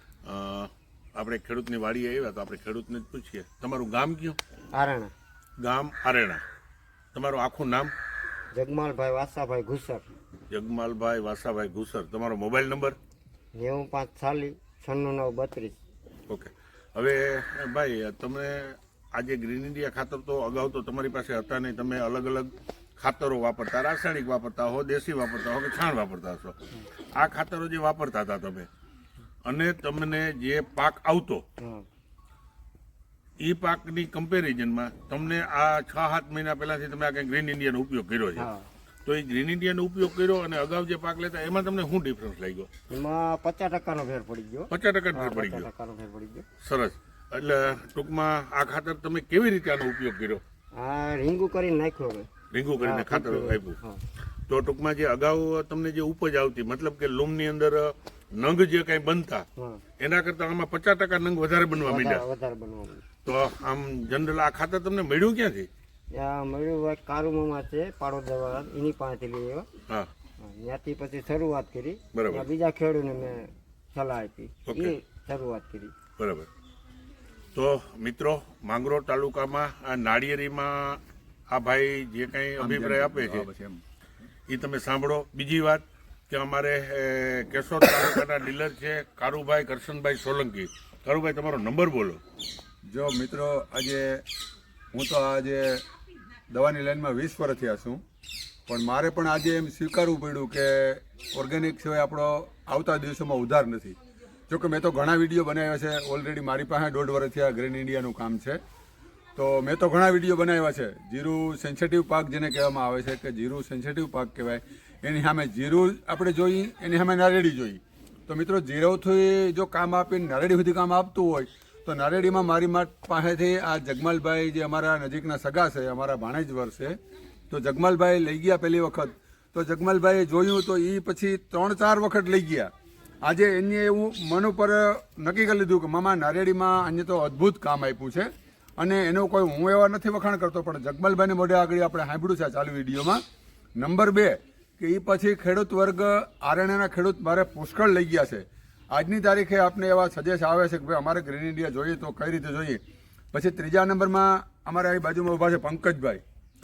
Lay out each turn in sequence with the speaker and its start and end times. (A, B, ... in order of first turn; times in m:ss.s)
0:00.2-0:04.4 A
0:04.7-0:05.1 B
0:05.6-0:06.4 A
0:07.1-0:07.9 A
0:08.5-0:10.1 B
0:10.5-0:13.0 A
0:13.6-0:15.8 B
0:16.3-0:26.6 A
0:27.2-0:28.7 A
0:29.4-0:31.4 A
0:31.6-0:31.8 B
0:33.4-0:38.5 A
0:38.4-0:38.7 B
0:39.0-0:42.7 A
0:42.9-0:46.5 B
0:44.7-0:45.7 A
0:46.6-0:50.4 A
0:50.8-0:54.0 B
0:52.5-0:53.8 A
0:54.5-0:59.5 A
0:59.6-0:59.8 B
1:00.0-1:02.2 A
1:01.8-1:03.0 B
1:03.2-1:05.7 A
1:06.1-1:09.7 B
1:10.4-1:15.9 B
1:12.1-1:12.5 A
1:14.7-1:15.0 A
1:16.2-1:16.5 A
1:17.5-1:23.5 A
1:22.6-1:23.8 C
1:24.5-1:32.2 A
1:32.9-1:34.2 C
1:34.9-1:35.8 C
1:36.5-1:38.0 C
1:38.7-1:44.0 C
1:44.5-1:48.6 C
1:49.4-2:07.0 C
2:07.5-2:12.7 C
2:13.2-2:23.2 C
2:23.8-2:32.8 C
2:33.3-2:36.2 C